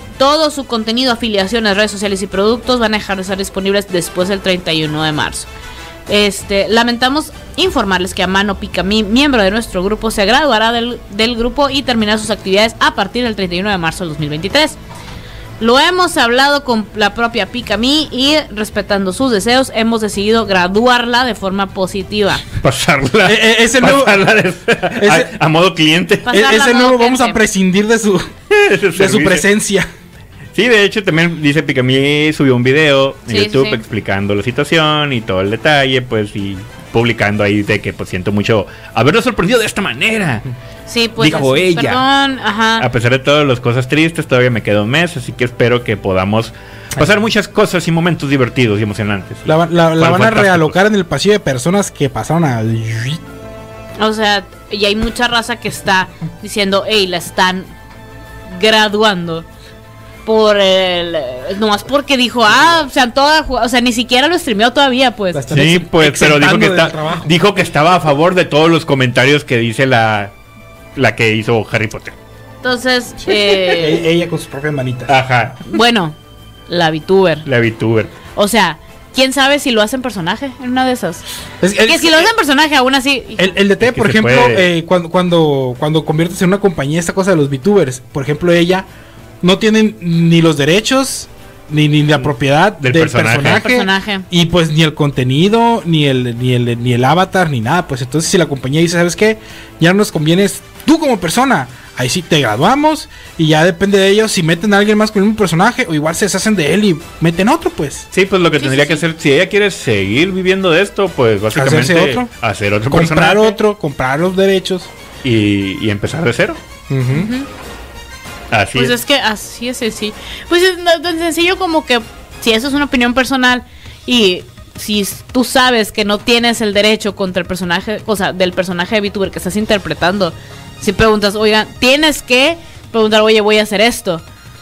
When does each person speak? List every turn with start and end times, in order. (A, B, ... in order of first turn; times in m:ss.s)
0:00.2-0:05.5 A
0:06.1-0:14.8 A
0:15.6-0:22.5 A
0:22.6-0:26.4 B
0:23.2-0:24.2 C
0:25.0-0:25.3 C
0:26.2-0:27.4 A
0:26.3-0:28.3 C
0:28.5-0:29.4 B
0:28.9-0:29.9 C
0:30.5-0:40.4 B
0:33.3-0:33.8 A
0:40.9-0:42.9 A
0:41.2-0:42.0 B
0:42.8-0:50.7 B
0:49.4-0:53.2 C
0:54.0-0:57.7 A
0:58.5-0:59.5 A
1:00.2-1:05.4 A
1:05.3-1:07.3 C
1:05.5-1:10.3 B
1:11.0-1:12.2 B
1:12.6-1:14.1 A
1:13.2-1:15.2 C
1:15.1-1:15.6 B
1:15.6-1:16.2 A
1:16.7-1:17.4 A
1:17.4-1:18.1 B
1:18.3-1:21.2 A
1:21.6-1:22.3 C
1:21.8-1:23.6 A
1:23.4-1:28.9 C
1:23.8-1:24.7 B
1:29.4-1:48.1 C
1:32.8-1:33.6 B
1:33.6-1:34.2 A
1:48.1-1:53.6 B
1:48.6-1:49.0 A
1:51.5-1:52.3 C
1:52.9-1:54.9 C
1:55.2-1:56.6 B
1:56.9-1:57.3 C
1:57.1-1:57.5 A
1:58.5-1:58.9 B
1:58.7-2:14.2 A